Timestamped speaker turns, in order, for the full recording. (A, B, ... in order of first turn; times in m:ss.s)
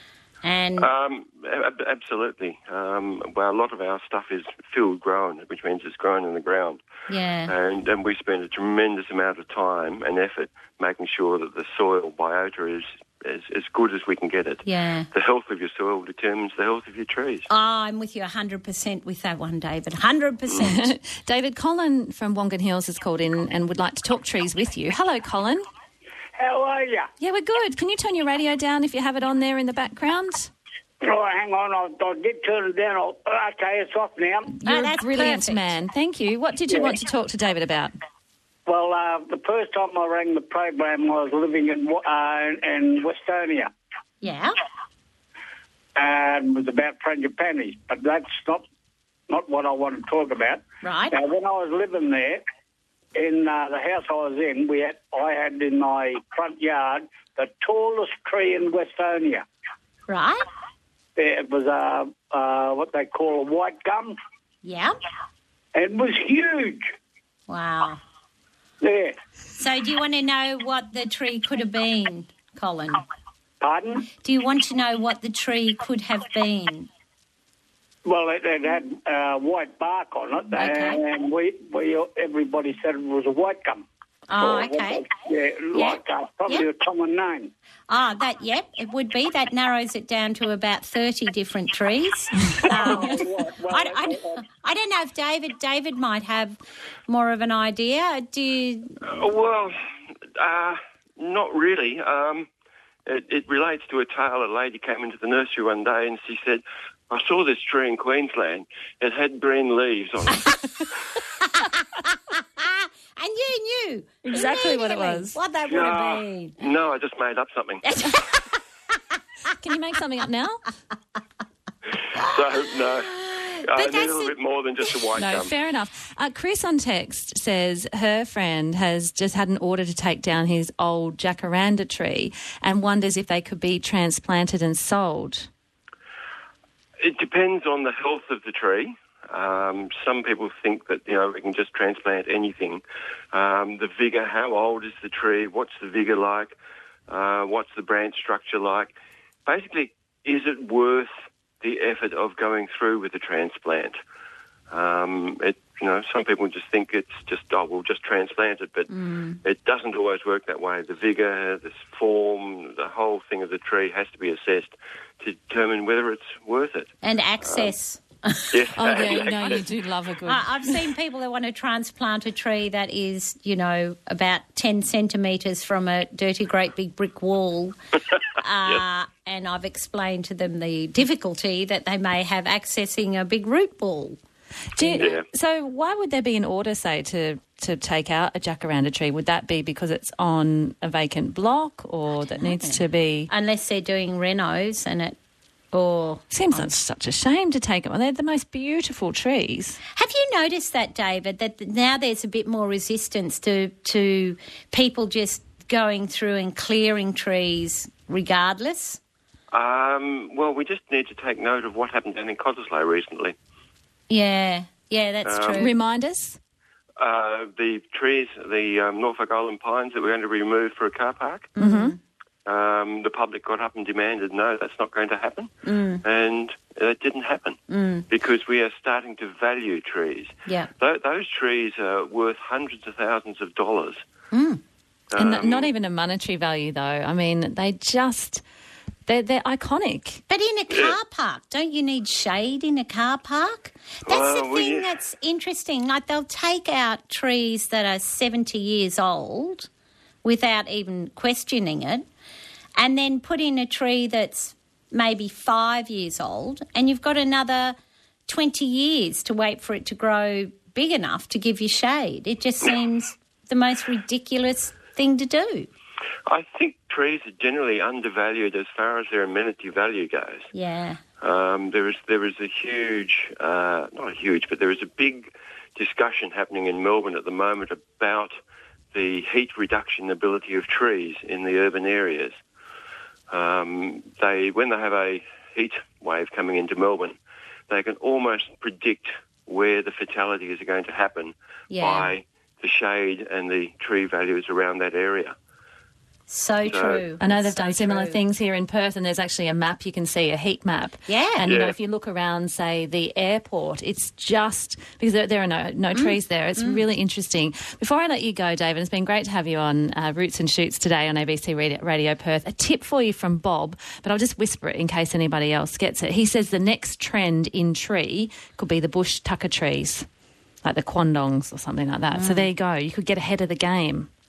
0:00.4-0:00.9 A
0:00.8-0:06.8 B
0:07.1-0:07.5 A
0:07.4-0:17.5 B
0:14.6-0:15.1 A
0:17.5-0:20.9 A
0:20.6-0:25.6 C
0:26.4-0:27.1 D
0:27.2-0:30.5 C
0:31.0-0:34.5 D
0:34.5-0:37.9 C
0:34.6-0:35.7 A
0:36.7-0:36.9 D
0:38.6-0:43.7 D
0:44.2-0:44.6 A
0:46.0-0:48.6 D
0:49.3-0:52.4 D
0:50.8-0:51.2 A
0:53.1-0:59.4 D
1:00.1-1:00.4 A
1:01.2-1:04.2 D
1:04.6-1:05.0 A
1:05.7-1:06.9 D
1:07.5-1:08.0 A
1:08.8-1:09.1 D
1:09.6-1:13.0 A
1:13.6-1:14.0 D
1:14.2-1:16.9 A
1:18.0-1:23.8 D
1:20.6-1:21.0 A
1:24.3-1:25.1 A
1:24.4-1:27.5 D
1:25.7-1:26.7 A
1:27.9-1:39.0 A
1:32.7-1:34.4 D
1:39.0-1:39.8 B
1:40.4-1:42.5 B
1:43.1-1:50.5 B
1:52.6-1:56.6 A
1:54.2-1:55.4 C
1:55.7-1:57.9 B
1:57.8-1:58.4 A
1:59.6-2:00.6 C
2:02.2-2:04.3 A
2:02.2-2:03.1 B
2:03.6-2:05.5 B
2:05.1-2:15.5 C
2:17.0-2:22.8 B
2:23.3-2:26.5 B
2:27.1-2:28.9 B
2:29.4-2:34.0 B
2:34.7-2:38.9 B
2:38.9-2:39.4 A
2:39.4-2:47.7 B
2:47.0-2:49.5 A
2:48.5-2:49.6 B
2:48.7-2:50.9 C
2:50.2-2:57.8 A
2:58.4-3:04.2 A
3:04.8-3:13.3 C
3:04.8-3:05.1 A
3:05.0-3:05.2 B
3:12.4-3:15.2 A
3:15.7-3:16.7 A
3:16.3-3:19.8 C
3:19.9-3:29.0 A
3:29.5-3:33.3 B
3:34.1-3:35.7 A
3:35.2-3:35.6 B
3:35.5-3:36.4 C
3:37.0-3:41.6 B
3:41.6-3:42.0 C
3:41.6-3:42.0 A
3:42.4-3:45.5 B
3:45.6-3:46.0 A
3:46.0-3:54.0 B
3:47.7-3:48.0 A
3:54.3-3:54.6 A
3:55.1-3:55.7 B
3:55.1-3:58.4 C
3:59.1-4:00.2 C
4:00.3-4:09.7 A
4:00.7-4:01.0 B
4:04.0-4:05.0 B
4:10.2-4:12.0 A
4:12.8-4:17.8 A
4:18.3-4:25.7 A
4:26.3-4:30.5 B
4:30.5-4:31.0 A
4:31.2-4:38.4 B
4:38.9-4:42.4 B
4:43.3-4:47.2 B
4:47.7-4:55.3 B
4:51.7-4:52.1 A
4:56.3-4:58.2 A
4:56.6-4:57.0 B
4:57.2-5:20.0 C
5:01.1-5:01.5 A
5:01.4-5:01.7 B
5:05.9-5:06.8 A
5:20.6-5:24.1 C
5:22.1-5:22.5 A